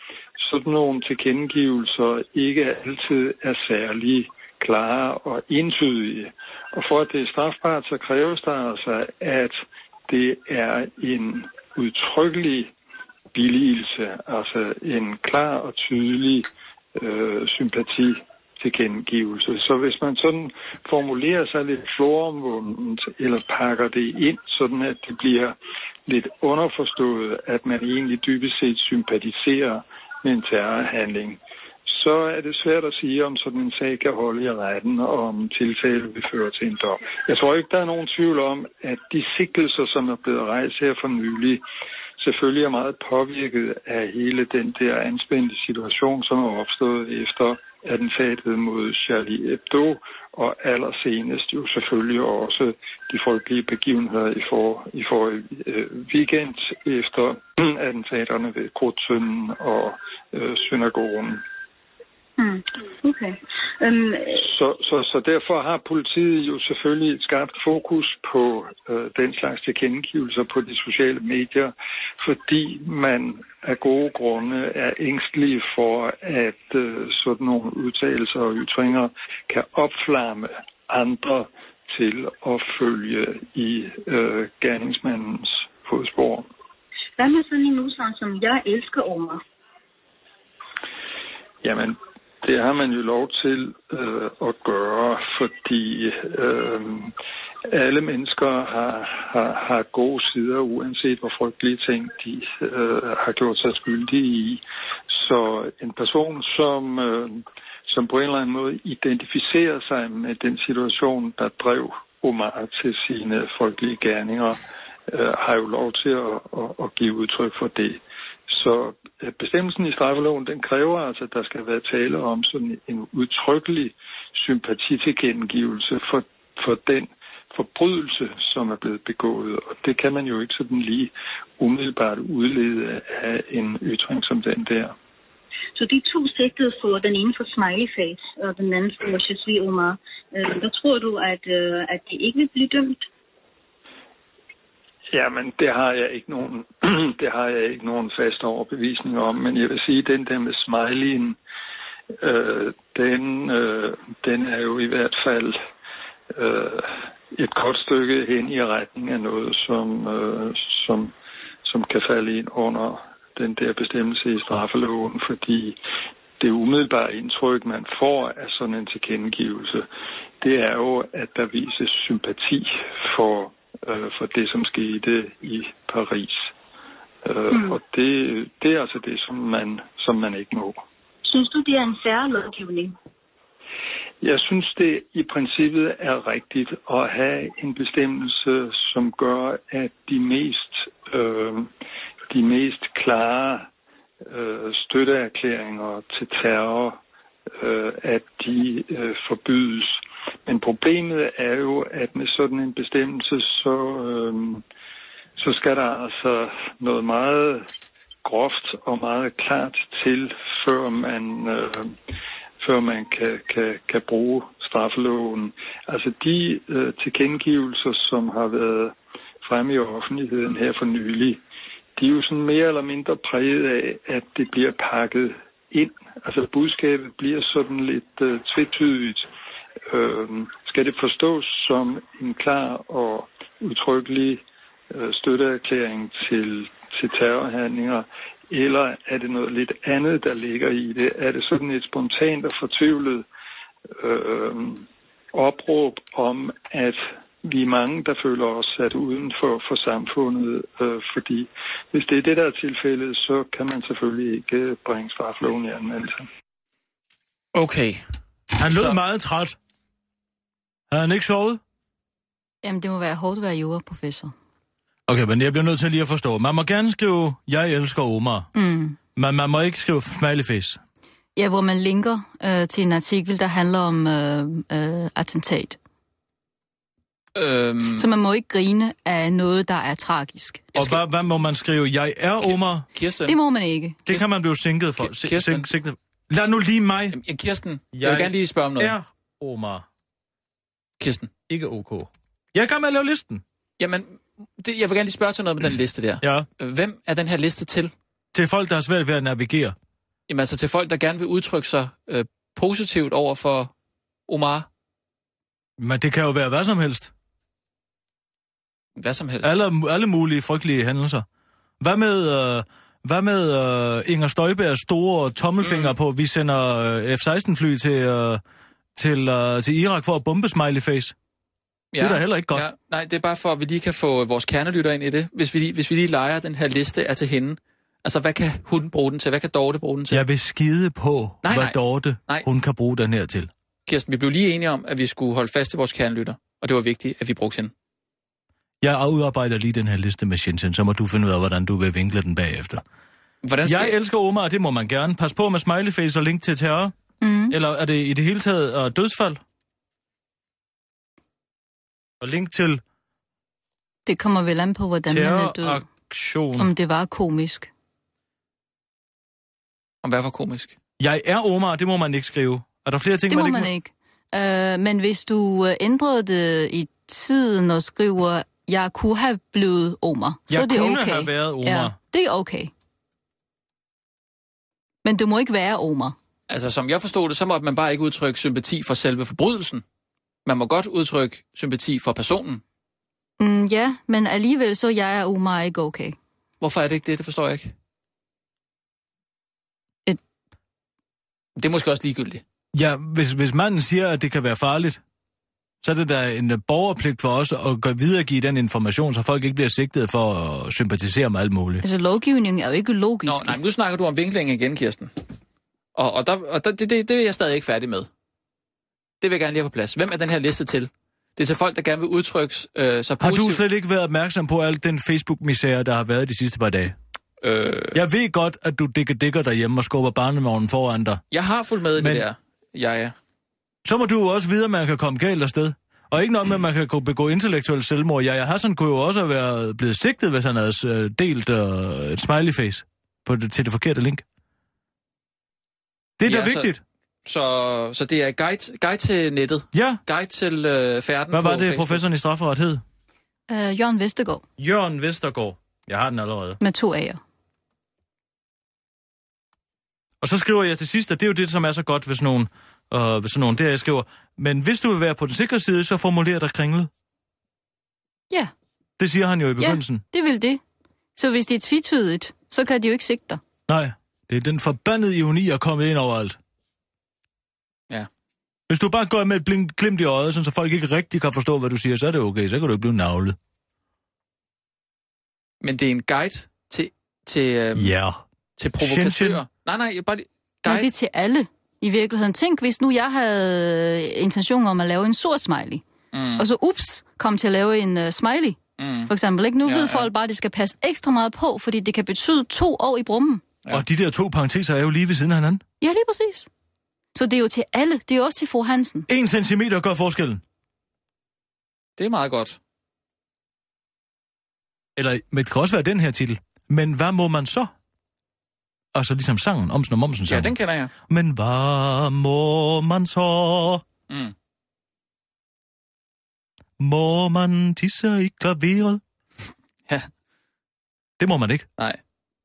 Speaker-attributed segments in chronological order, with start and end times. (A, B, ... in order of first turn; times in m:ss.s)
0:00.4-0:12.7 A
0:13.3-0:41.6 A
0:42.2-1:01.4 A
1:02.4-1:04.4 B
1:04.4-1:26.5 A
1:27.2-1:29.4 B
1:31.6-1:37.1 A
1:37.7-2:15.0 A
2:15.8-2:23.1 B
2:25.1-2:31.4 A
2:32.2-2:35.6 A
2:36.3-2:45.8 A
2:46.4-2:49.9 A
2:50.4-2:56.5 A
2:57.2-3:00.8 A
3:01.2-3:03.0 B
3:04.2-3:11.7 A
3:12.3-3:13.7 A
3:14.3-3:17.0 A
3:17.6-3:24.6 A
3:25.4-3:27.7 A
3:28.2-3:31.9 A
3:32.6-3:41.4 A
3:42.0-3:49.3 A
3:49.9-4:03.2 A
4:04.0-4:16.3 A
4:17.5-4:18.0 C
4:18.6-4:19.6 D
4:18.6-4:19.0 C
4:20.9-4:21.6 D
4:22.6-4:24.3 E
4:25.1-4:28.5 D
4:28.6-4:29.0 E
4:29.2-4:30.8 D
4:31.4-4:35.8 E
4:37.4-4:38.1 C
4:38.0-4:40.7 E
4:40.8-4:41.0 C
4:40.8-4:42.9 D
4:42.5-4:43.4 C
4:43.3-4:44.0 E
4:44.1-4:47.2 D
4:45.0-4:45.7 C
4:47.1-4:49.0 C
4:47.9-4:49.9 D
4:51.0-4:51.3 C
4:51.5-4:53.4 D
4:53.8-4:57.9 C
4:56.2-4:56.5 D
4:58.3-4:59.8 D
5:00.3-5:03.7 C
5:04.3-5:04.7 C
5:05.8-5:07.1 D
5:09.0-5:09.6 C
5:09.4-5:11.2 D
5:11.8-5:18.4 D
5:15.6-5:15.9 C
5:19.0-5:21.2 D
5:21.9-5:30.2 C
5:22.0-5:22.7 D
5:30.1-5:33.5 D
5:31.4-5:32.5 C
5:33.9-5:37.7 C
5:38.8-5:42.8 D
5:43.4-5:44.0 C
5:43.6-5:46.9 D
5:47.2-5:47.6 E
5:47.5-5:49.4 D
5:52.2-5:52.8 D
5:54.1-5:55.9 E
5:55.1-5:56.7 D
5:56.6-5:57.7 E
6:00.0-6:00.8 C
6:01.0-6:03.7 D
6:03.3-6:12.7 E
6:10.5-6:12.0 D
6:15.0-6:16.2 E
6:16.5-6:19.8 C
6:20.5-6:22.6 C
6:23.4-6:26.2 E
6:26.6-6:27.7 C
6:31.6-6:32.4 C
6:32.7-6:35.0 D
6:35.8-6:41.8 D
6:41.8-6:43.6 E
6:43.2-6:45.1 C
6:46.0-6:48.1 C
6:49.2-6:53.6 C
6:53.2-6:57.0 D
6:57.4-6:58.0 C
6:57.9-7:01.2 D
7:01.3-7:03.2 C
7:02.0-7:02.2 D
7:03.8-7:14.2 D
7:16.2-7:16.8 D
7:16.2-7:16.7 C
7:17.2-7:22.0 C
7:19.7-7:20.0 D
7:21.3-7:22.8 D
7:23.5-7:24.4 E
7:24.6-7:26.6 D
7:26.6-7:27.2 E
7:30.2-7:36.9 D
7:39.0-7:40.0 D
7:39.6-7:40.6 E
7:41.2-7:43.4 E
7:43.7-7:46.4 D
7:48.7-7:53.4 D
7:55.6-7:57.9 C
7:57.8-7:58.2 D
7:58.6-8:00.9 C
7:58.8-7:59.4 D
8:00.7-8:05.8 E
8:06.1-8:06.5 C
8:06.4-8:13.4 E
8:08.8-8:09.1 C
8:09.6-8:10.1 C
8:13.7-8:15.6 D
8:15.8-8:16.5 E
8:17.2-8:19.1 E
8:19.1-8:20.4 D
8:22.0-8:22.6 C
8:25.0-8:27.7 D
8:28.9-8:30.6 D
8:30.3-8:30.9 C
8:31.1-8:33.8 D
8:34.1-8:34.3 C
8:36.8-8:39.0 D
8:41.2-8:41.7 D